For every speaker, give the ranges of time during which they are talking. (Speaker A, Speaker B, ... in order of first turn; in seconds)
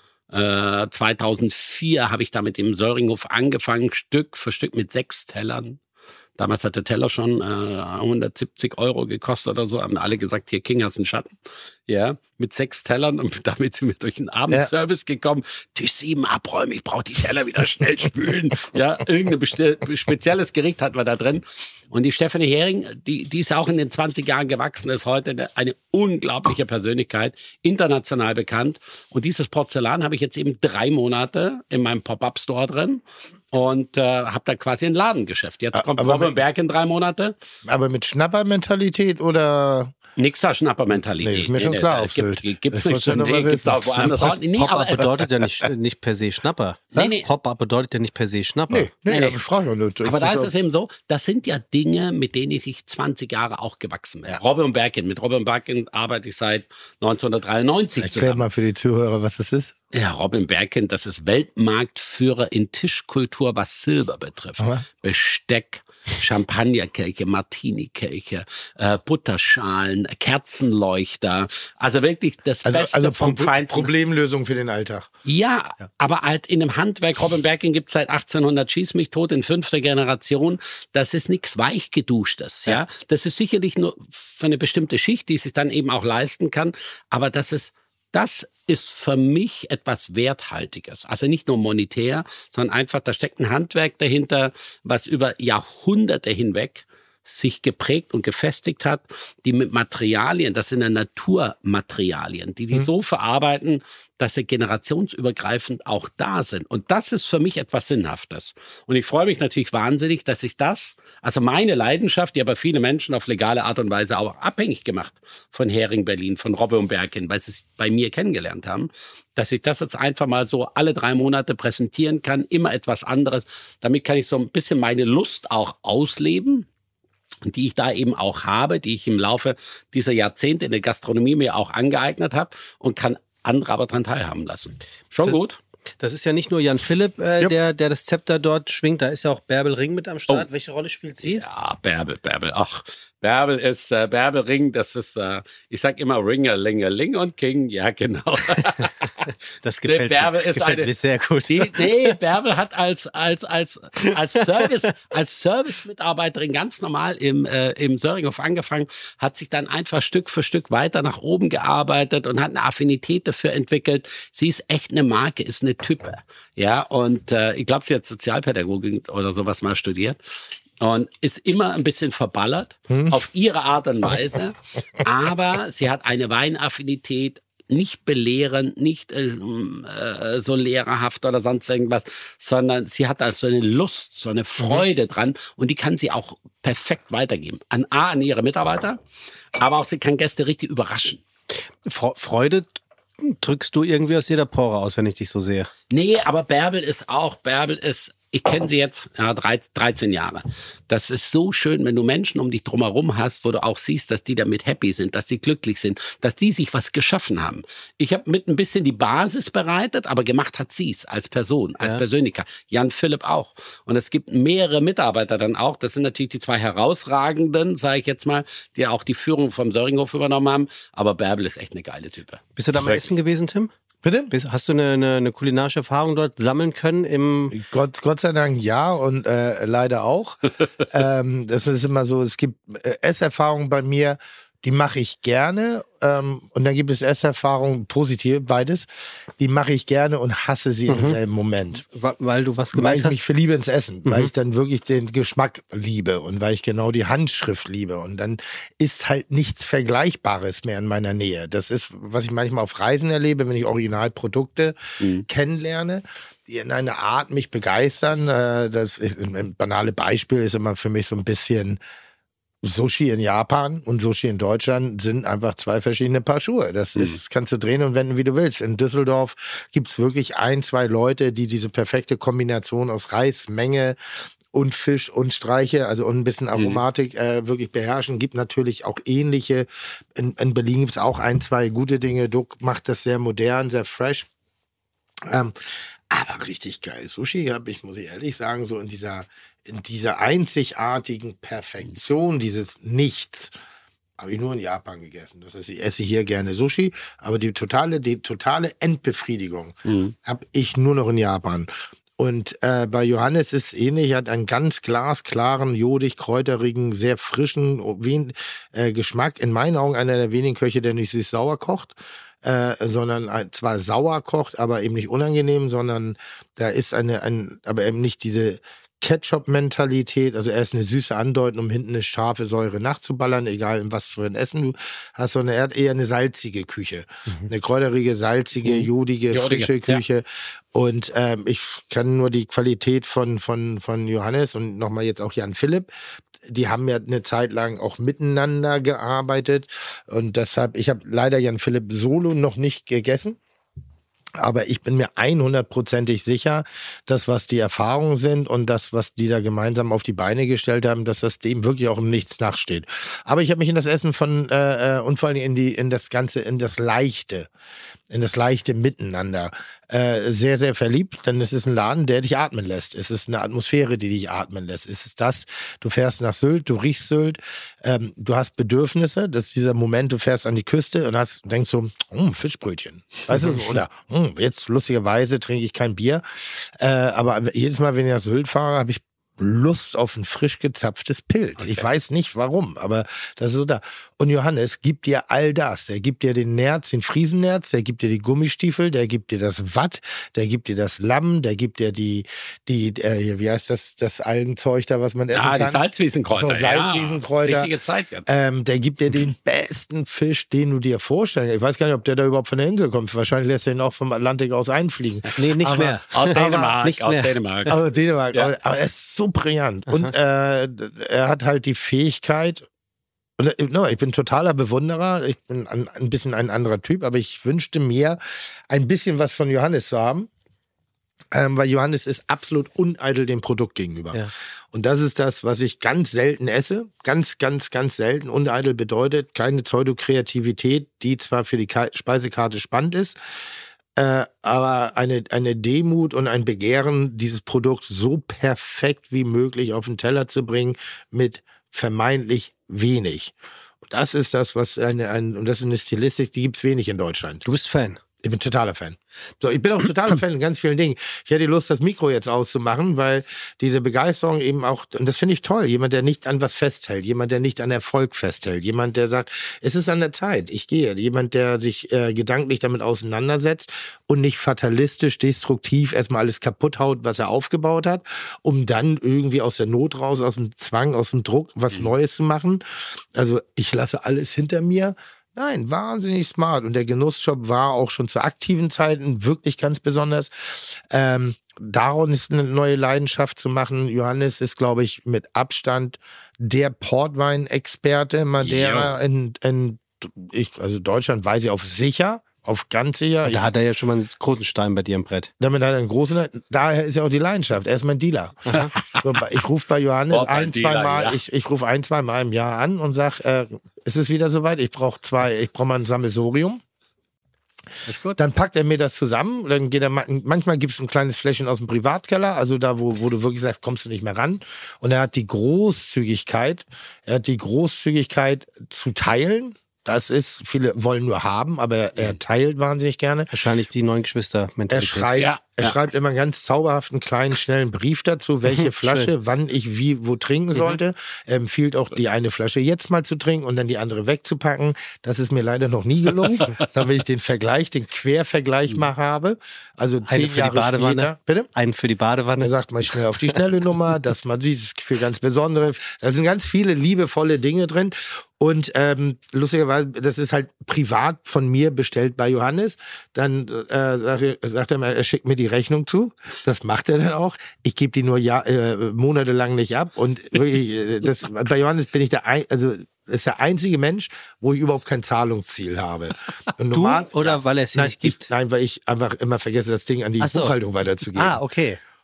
Speaker A: 0.3-5.8, 6.4-11.3, 11.9-37.3, 40.2-45.1, 46.9-47.3, 49.1-49.4, 50.0-58.4, 59.9-73.9, 75.2-126.7, 127.4-135.6, 141.2-149.1, 149.8-150.9, 151.5-170.2, 170.8-189.0, 189.5-191.2, 195.9-223.0, 255.0-255.2, 276.6-276.8, 299.9-300.1, 329.3-330.0, 381.6-381.9, 395.3-398.3, 406.1-407.8, 488.4-488.9, 498.7-499.0, 500.1-501.2, 507.9-508.2, 525.1-525.8
Speaker B: 35.7-36.3, 37.6-39.9, 41.2-44.4, 45.0-45.7, 48.7-50.5, 58.0-59.8, 64.6-64.8, 72.6-75.1, 172.9-173.2, 224.0-224.3, 227.5-241.8, 242.7-261.8, 262.6-274.0, 274.5-284.3, 285.3-285.5, 286.1-293.5, 294.2-335.9, 336.4-343.4, 344.4-357.5, 358.1-397.7, 398.3-406.8, 407.7-412.7, 413.4-420.3, 421.3-433.2, 433.9-447.4, 448.2-472.6, 473.1-493.5, 495.4-506.6, 508.1-523.3, 524.7-541.5, 542.4-571.4
Speaker C: 44.5-48.9, 136.0-141.4, 149.6-152.2, 191.8-195.7, 222.6-223.7, 224.3-227.6, 240.9-241.2, 241.9-243.2, 244.0-244.3, 405.4-407.3, 447.4-448.0, 493.2-495.3, 523.3-525.2, 528.5-529.1, 540.1-542.5, 566.7-568.3, 570.2-570.5, 571.1-571.8